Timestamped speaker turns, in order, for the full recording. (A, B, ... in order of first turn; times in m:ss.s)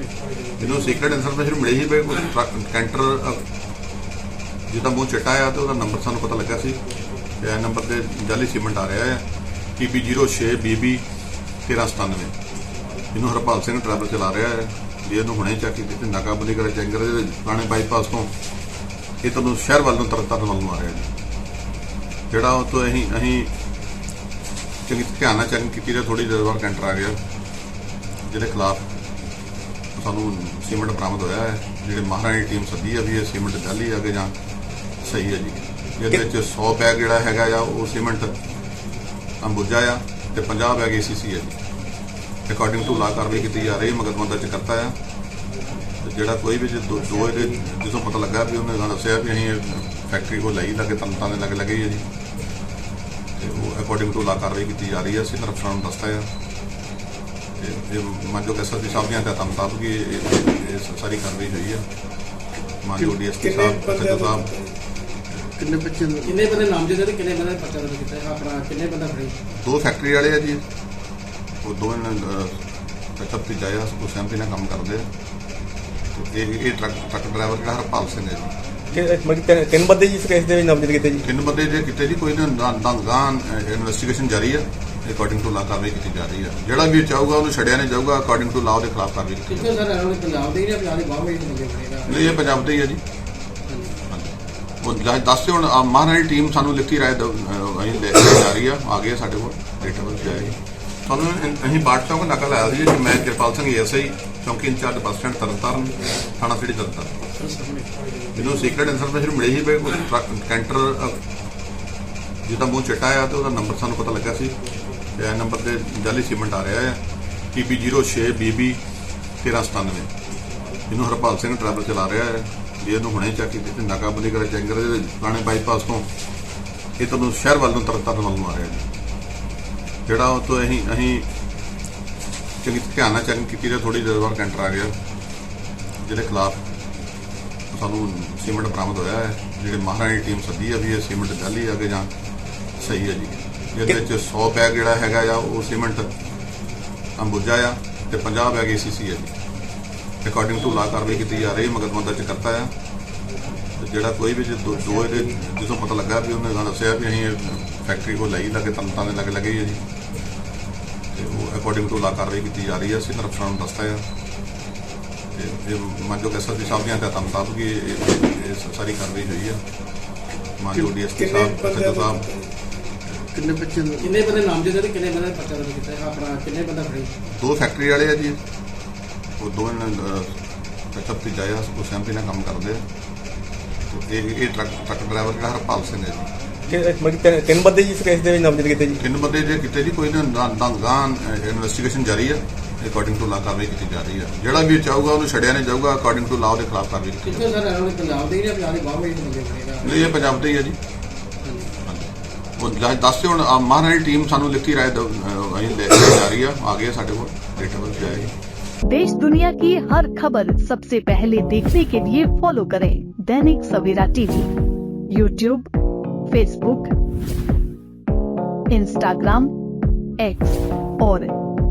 0:00.6-0:03.4 A
0:04.7-0:06.8 A
0:07.4-0:09.2 A
0:09.8-0:11.0 A
0:11.6-0:12.3 A
0:13.1-0:18.3 A
0:19.2-0:21.1 A
0:22.3-0:23.5 A
0:24.9-0:27.2 A
0:28.3-0:28.9 A
0:30.0-0:34.4 A
0:35.0-0:38.3 A
0:39.4-0:41.6 A
0:42.5-0:45.0 A
0:46.0-0:52.1 A
0:53.4-0:56.3 A
0:57.6-1:01.8 A
1:02.8-1:04.5 A
1:03.4-1:04.7 B
1:05.6-1:06.7 C
1:06.2-1:09.4 D
1:09.5-1:10.6 A
1:11.6-1:12.6 A
1:13.2-1:15.1 A
1:16.1-1:18.5 A
1:18.9-1:21.3 B
1:21.2-1:29.8 A
1:29.5-1:32.6 D
1:32.0-1:33.0 A
1:33.7-1:34.0 D
1:34.1-1:47.1 A
1:47.4-1:47.7 C
1:48.3-1:51.2 A
1:52.4-1:54.6 A
1:55.2-1:57.0 A
1:57.5-1:58.8 A
1:59.4-2:00.1 A
2:00.9-2:06.1 A
2:07.0-2:08.9 A
2:10.1-2:11.3 A
2:12.6-2:14.9 A
2:16.0-2:16.6 A
2:17.7-2:22.1 A
2:22.8-2:26.1 A
2:27.2-2:29.3 A
2:30.2-2:32.7 A
2:30.6-2:31.7 D
2:33.8-2:39.8 A
2:41.1-2:44.0 A
2:45.3-2:49.6 A
2:50.6-2:52.3 A
2:51.1-2:52.5 B
2:53.3-2:54.3 C
2:54.0-2:57.2 D
2:57.3-2:58.4 A
2:59.4-3:00.4 A
3:00.9-3:02.8 A
3:03.9-3:06.3 A
3:06.7-3:09.0 B
3:09.0-3:17.5 A
3:17.2-3:20.3 D
3:19.8-3:20.8 A
3:21.4-3:21.7 D
3:21.8-3:28.3 A
3:28.9-3:34.5 E
3:35.1-3:35.7 E
3:36.3-3:36.9 E
3:38.7-3:39.5 E
3:40.2-3:41.3 E